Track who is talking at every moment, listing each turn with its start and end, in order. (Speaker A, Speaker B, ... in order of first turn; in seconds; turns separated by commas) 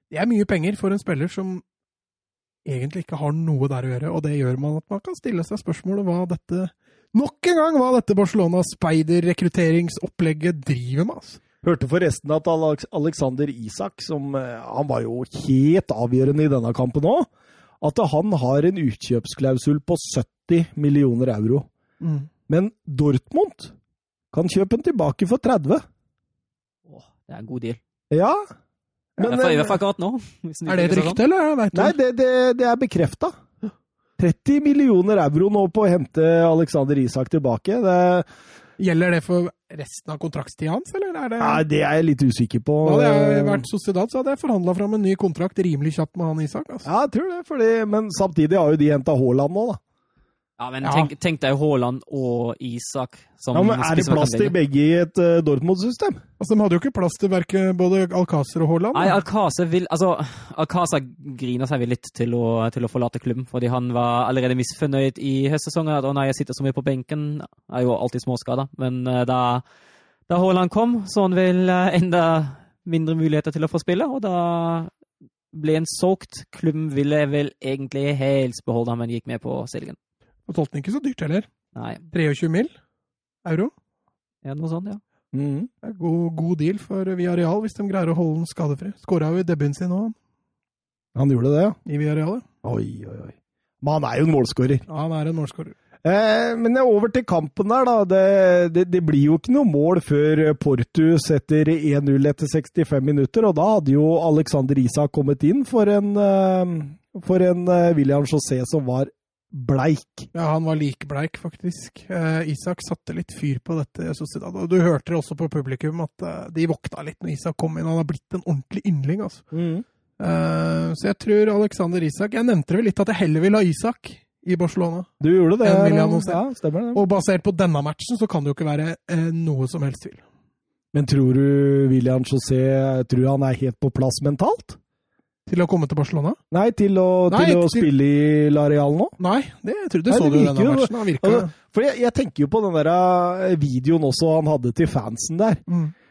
Speaker A: 0.1-1.6, Speaker A: 2.7-11.4, Speaker B: 11.6-17.3, Speaker B: 17.8-21.7, Speaker A: 22.0-22.3, Speaker B: 22.5-23.7, Speaker B: 24.3-25.8, Speaker C: 26.9-27.8, Speaker B: 28.1-28.4, Speaker B: 29.2-29.7, Speaker A: 29.2-29.4, Speaker C: 29.2-31.2, Speaker A: 30.7-32.0, Speaker B: 31.7-33.3, Speaker B: 34.2-38.3, Speaker A: 38.8-41.6, Speaker B: 41.4-43.6, Speaker A: 42.8-46.9, Speaker B: 46.9-49.8, Speaker C: 50.6-54.5, Speaker A: 50.8-51.1, Speaker B: 53.5-56.2, Speaker A: 56.4-59.2, Speaker C: 58.9-69.6, Speaker C: 70.3-74.9, Speaker C: 75.5-80.0, Speaker A: 80.5-81.5, Speaker C: 81.7-82.0, Speaker A: 82.1-82.7, Speaker A: 83.5-83.7, Speaker C: 84.4-85.0, Speaker B: 85.3-85.7, Speaker A: 85.8-90.2, Speaker B: 91.1-91.8, Speaker A: 91.9-92.4, Speaker B: 92.6-94.8, Speaker A: 94.9-95.8, Speaker B: 96.0-110.3, Speaker A: 110.3-119.4, Speaker B: 119.5-119.8, Speaker A: 120.2-125.1, Speaker B: 125.2-127.0, Speaker A: 125.6-126.4, Speaker A: 126.9-130.2, Speaker B: 130.9-134.8, Speaker A: 135.5-136.4, Speaker B: 136.5-139.1, Speaker A: 137.3-137.9, Speaker A: 139.2-141.5, Speaker B: 140.1-145.6, Speaker A: 145.7-145.9